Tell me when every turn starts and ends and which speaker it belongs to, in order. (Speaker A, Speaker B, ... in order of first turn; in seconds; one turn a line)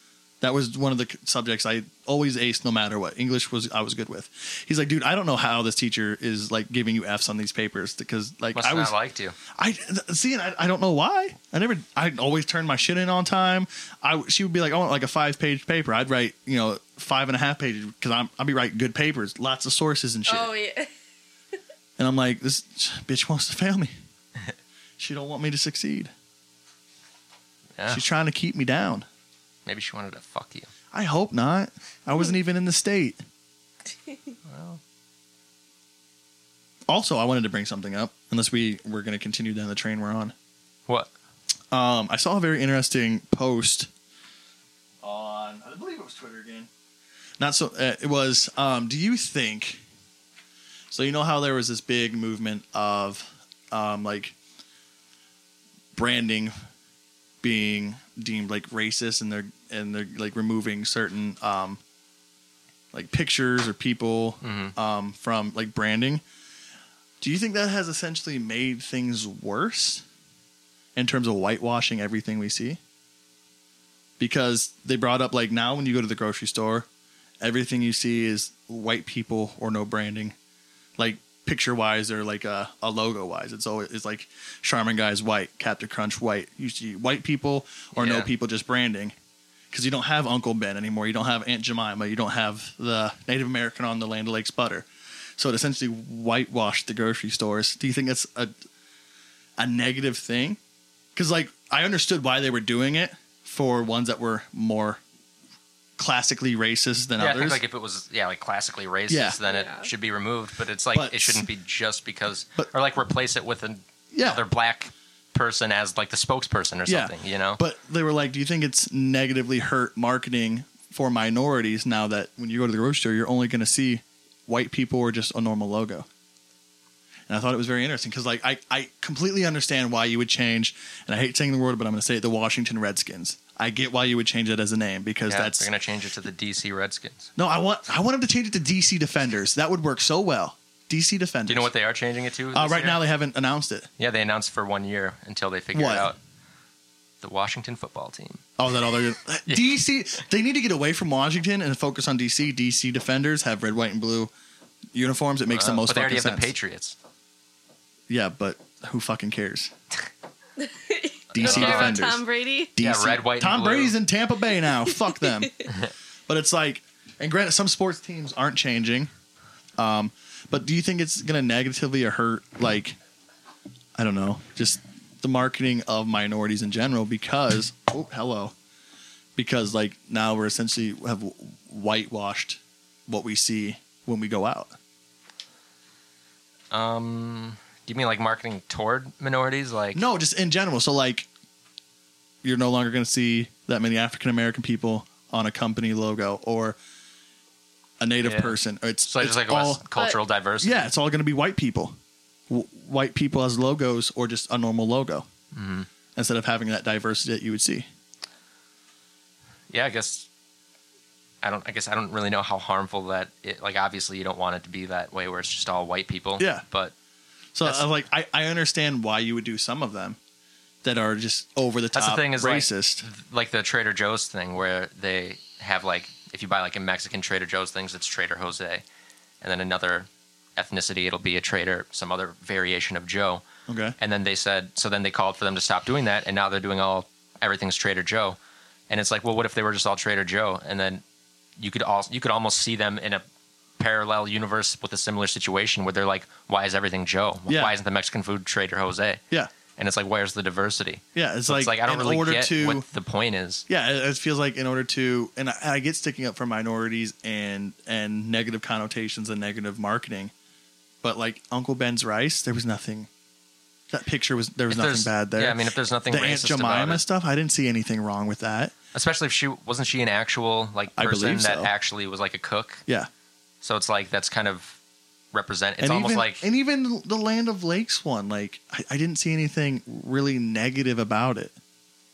Speaker A: 0.4-8.9
Speaker B: 8.5-9.3
Speaker A: 9.5-20.5
Speaker C: 20.3-20.9
Speaker A: 22.0-23.9
Speaker A: 25.0-26.1
Speaker B: 27.8-28.0
Speaker A: 27.9-29.1
Speaker B: 29.6-30.7
Speaker A: 30.9-33.2
Speaker B: 34.5-34.8
Speaker A: 36.9-40.3
Speaker A: 41.7-43.9
Speaker A: 45.0-46.7
Speaker A: 47.4-49.8
Speaker A: 50.9-54.4
Speaker A: 55.9-56.5
Speaker A: 57.4-61.8
Speaker A: 62.9-66.2
Speaker B: 64.4-64.7
Speaker A: 67.2-70.0
Speaker A: 70.9-72.8
Speaker A: 74.2-76.9
Speaker A: 77.4-80.3
Speaker A: 81.0-89.1
Speaker B: 87.9-88.3
Speaker A: 89.7-98.5
Speaker A: 99.6-100.6
Speaker A: 101.1-105.0
Speaker A: 106.0-107.6
Speaker B: 107.2-117.6
Speaker A: 109.1-109.4
Speaker C: 109.5-109.9
Speaker A: 110.9-111.5
Speaker A: 114.1-114.4
Speaker A: 116.8-126.1
Speaker A: 127.3-135.7
Speaker B: 135.3-137.3
Speaker A: 137.3-141.7
Speaker B: 141.5-143.0
Speaker A: 142.5-143.9
Speaker B: 144.0-146.2
Speaker A: 145.7-146.1
Speaker B: 147.2-148.4
Speaker A: 148.6-154.3
Speaker A: 154.9-156.5
Speaker B: 155.5-156.9
Speaker A: 158.1-159.7
Speaker C: 160.6-162.7
Speaker A: 161.3-165.7
Speaker B: 161.3-162.0
Speaker B: 162.8-164.0
Speaker A: 166.3-169.1
Speaker A: 169.8-173.0
Speaker A: 173.9-178.5
Speaker A: 179.3-184.7
Speaker B: 186.7-190.0
Speaker A: 189.9-191.3
Speaker A: 192.4-196.8
Speaker A: 198.0-199.8
Speaker B: 198.2-200.9
Speaker A: 200.6-202.0
Speaker A: 202.5-205.2
Speaker B: 205.5-205.9
Speaker A: 206.2-207.9
Speaker B: 209.7-210.3
Speaker B: 211.4-216.9
Speaker A: 216.4-216.6
Speaker A: 217.5-220.2
Speaker B: 217.6-217.9
Speaker A: 220.8-223.1
Speaker B: 221.9-228.8
Speaker B: 229.4-233.4
Speaker A: 233.7-233.9
Speaker B: 234.0-238.4
Speaker B: 238.9-241.0
Speaker B: 241.6-243.2
Speaker B: 243.8-249.2
Speaker A: 247.5-247.7
Speaker B: 249.8-253.7
Speaker A: 251.1-252.8
Speaker A: 253.7-260.3
Speaker A: 261.0-263.1
Speaker A: 263.9-268.7
Speaker B: 264.7-267.0
Speaker B: 268.9-272.8
Speaker A: 270.9-271.7
Speaker B: 273.6-274.8
Speaker B: 275.3-276.5
Speaker A: 275.8-281.5